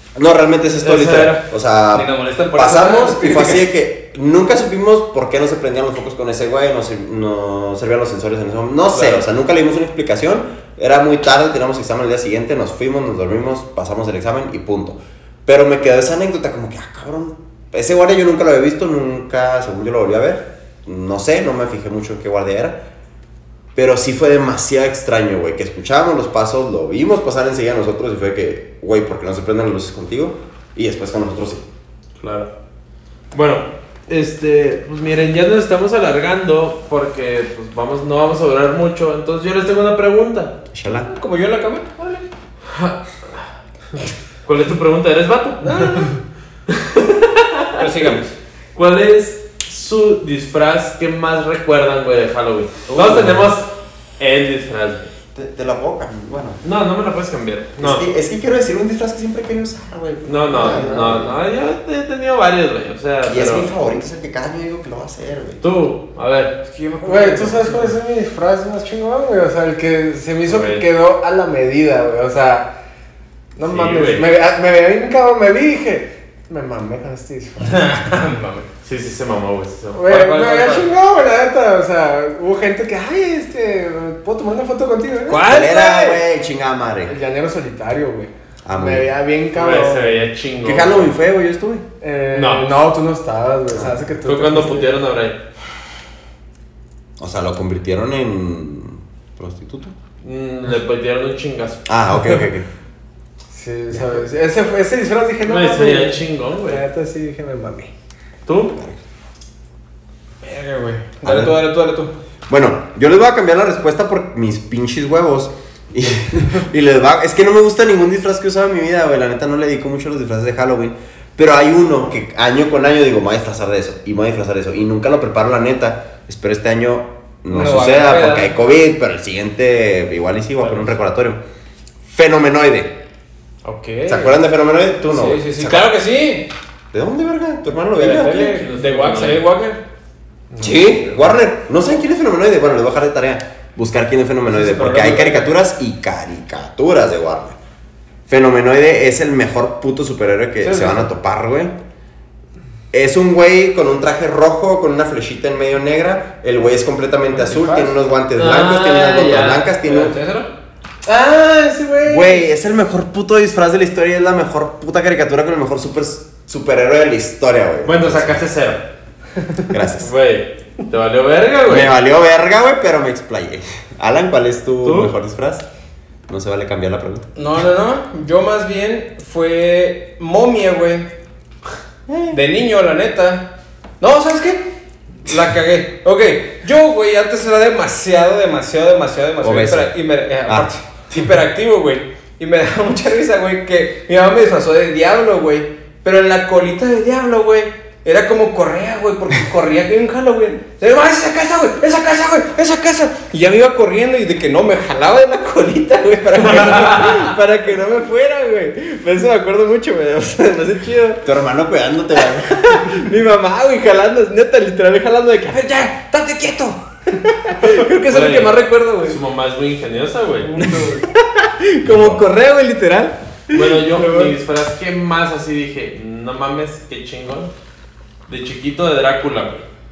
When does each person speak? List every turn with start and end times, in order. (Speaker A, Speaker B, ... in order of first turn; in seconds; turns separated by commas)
Speaker A: 0.2-22.8, Speaker B: 0.8-1.4, Speaker C: 1.9-3.6, Speaker B: 8.9-9.2, Speaker A: 23.8-31.6, Speaker B: 32.2-32.5, Speaker B: 33.3-40.6, Speaker A: 40.7-41.1, Speaker C: 40.9-42.3, Speaker B: 42.7-43.4, Speaker B: 44.4-46.1, Speaker C: 45.6-46.1, Speaker B: 46.7-48.1, Speaker C: 47.8-48.3, Speaker B: 48.8-55.1, Speaker A: 53.0-53.3, Speaker A: 55.4-56.6, Speaker B: 56.6-58.1, Speaker A: 57.8-61.4, Speaker B: 60.2-63.7, Speaker D: 60.6-61.2, Speaker A: 63.3-65.6, Speaker B: 65.6-66.5, Speaker C: 66.6-67.9, Speaker D: 67.0-72.7, Speaker B: 70.5-70.8, Speaker D: 73.6-77.8, Speaker B: 73.7-74.3, Speaker C: 77.6-78.7, Speaker B: 78.8-80.2, Speaker D: 79.9-85.5, Speaker C: 80.1-80.9, Speaker C: 85.3-86.2, Speaker A: 85.5-87.2, Speaker D: 87.1-90.2, Speaker A: 88.7-89.1, Speaker B: 89.5-91.1, Speaker A: 90.6-91.8, Speaker D: 92.0-94.9, Speaker B: 92.3-92.7, Speaker A: 93.7-94.0, Speaker B: 94.3-95.4, Speaker A: 97.2-99.9, Speaker B: 100.2-101.8, Speaker A: 101.9-102.7, Speaker D: 103.5-107.9, Speaker B: 105.5-106.8, Speaker B: 108.5-108.8, Speaker A: 108.7-109.0, Speaker C: 110.4-112.1, Speaker A: 111.2-111.6, Speaker A: 112.5-131.4, Speaker C: 127.5-128.5, Speaker A: 132.1-132.9, Speaker C: 133.6-134.4, Speaker A: 134.1-136.0, Speaker C: 135.1-136.5, Speaker A: 136.9-138.5, Speaker C: 137.9-139.8, Speaker B: 138.3-139.4, Speaker A: 140.6-147.6, Speaker C: 140.6-141.0, Speaker C: 144.5-145.5, Speaker A: 148.3-151.8, Speaker D: 150.6-151.0, Speaker A: 152.9-160.2, Speaker D: 157.4-157.9, Speaker B: 158.3-160.1, Speaker C: 159.8-160.5, Speaker D: 161.1-162.5, Speaker A: 162.1-168.4, Speaker B: 167.8-168.8, Speaker A: 169.7-170.1, Speaker B: 170.0-171.9, Speaker A: 171.7-175.7, Speaker B: 174.8-175.1, Speaker A: 176.3-177.3, Speaker C: 177.4-181.1, Speaker A: 182.1-182.4, Speaker C: 182.3-211.2, Speaker A: 189.4-189.9, Speaker A: 190.5-191.2, Speaker B: 206.7-207.2, Speaker A: 211.2-212.6, Speaker C: 212.2-219.2, Speaker B: 218.1-220.6, Speaker C: 220.5-224.3, Speaker A: 221.8-222.2, Speaker B: 223.5-227.5, Speaker B: 228.3-229.7